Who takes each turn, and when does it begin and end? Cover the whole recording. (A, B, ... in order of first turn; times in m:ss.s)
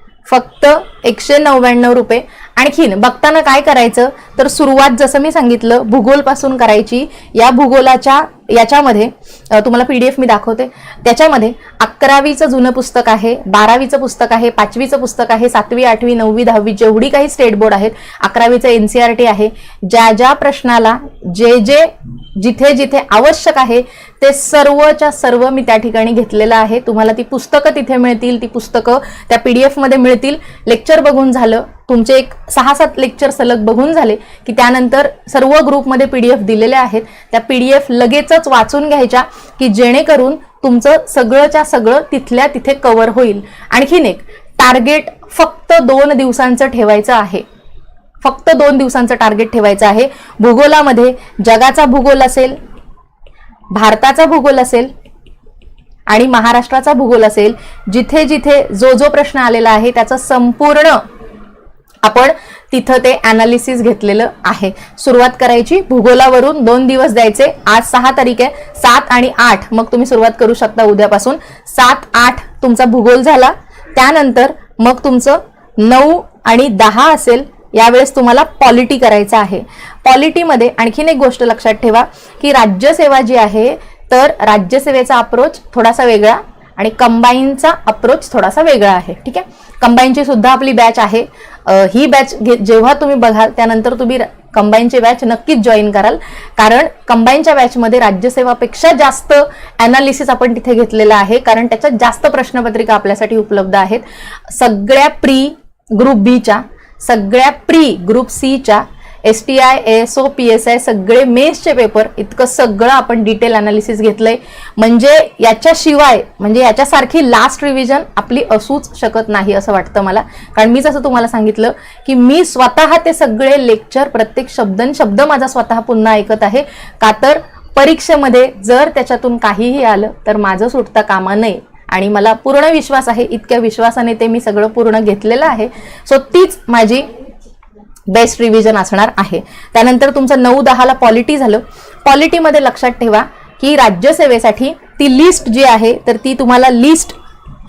0:00.3-0:47.4 A
0:48.2-0:52.6 A
0:53.7-0:54.9 A
0:56.1-1:01.0 A
1:02.0-2:17.1 A
2:18.1-2:27.2 A